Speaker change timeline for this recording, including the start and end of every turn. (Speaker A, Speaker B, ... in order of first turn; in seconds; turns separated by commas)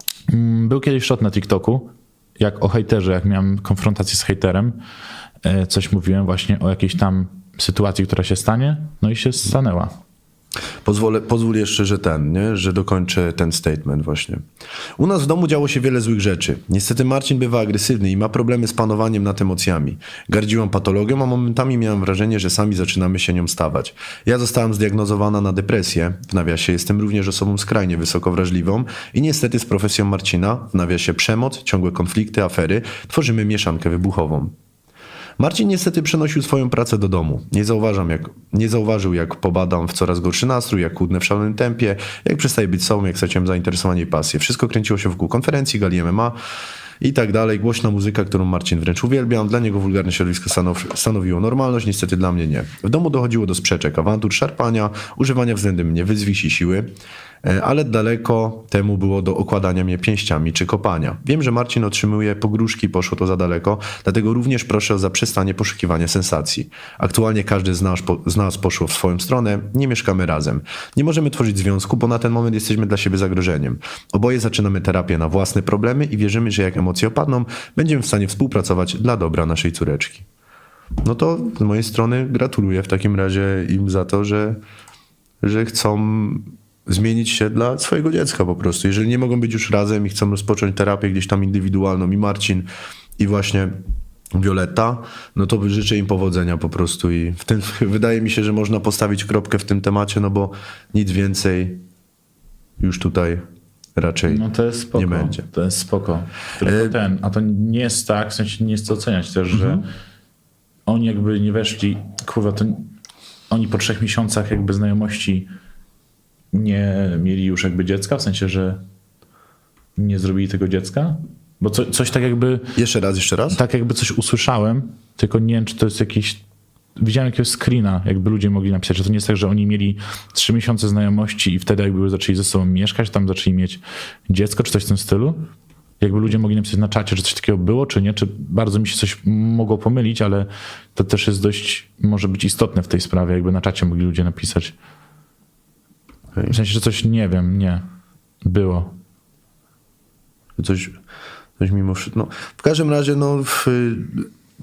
Speaker A: 0.3-4.8, Speaker A: 5.4-9.9, Speaker B: 10.8-14.4, Speaker B: 15.0-34.5, Speaker B: 35.4-46.4, Speaker B: 47.0-56.9, Speaker B: 57.4-80.2, Speaker B: 81.0-84.6, Speaker B: 85.4-92.7, Speaker B: 93.2-93.8, Speaker B: 94.3-101.8, Speaker B: 102.8-103.4, Speaker B: 104.0-105.5, Speaker A: 104.3-109.8, Speaker B: 106.6-107.0, Speaker B: 109.5-109.8, Speaker A: 110.8-112.9, Speaker A: 113.5-115.5, Speaker A: 116.5-118.8, Speaker A: 120.0-122.7, Speaker B: 122.7-123.6, Speaker A: 123.5-126.4, Speaker A: 127.0-135.4, Speaker A: 136.0-144.7, Speaker A: 146.5-147.8, Speaker A: 148.4-148.9, Speaker B: 150.6-150.9, Speaker B: 151.6-154.3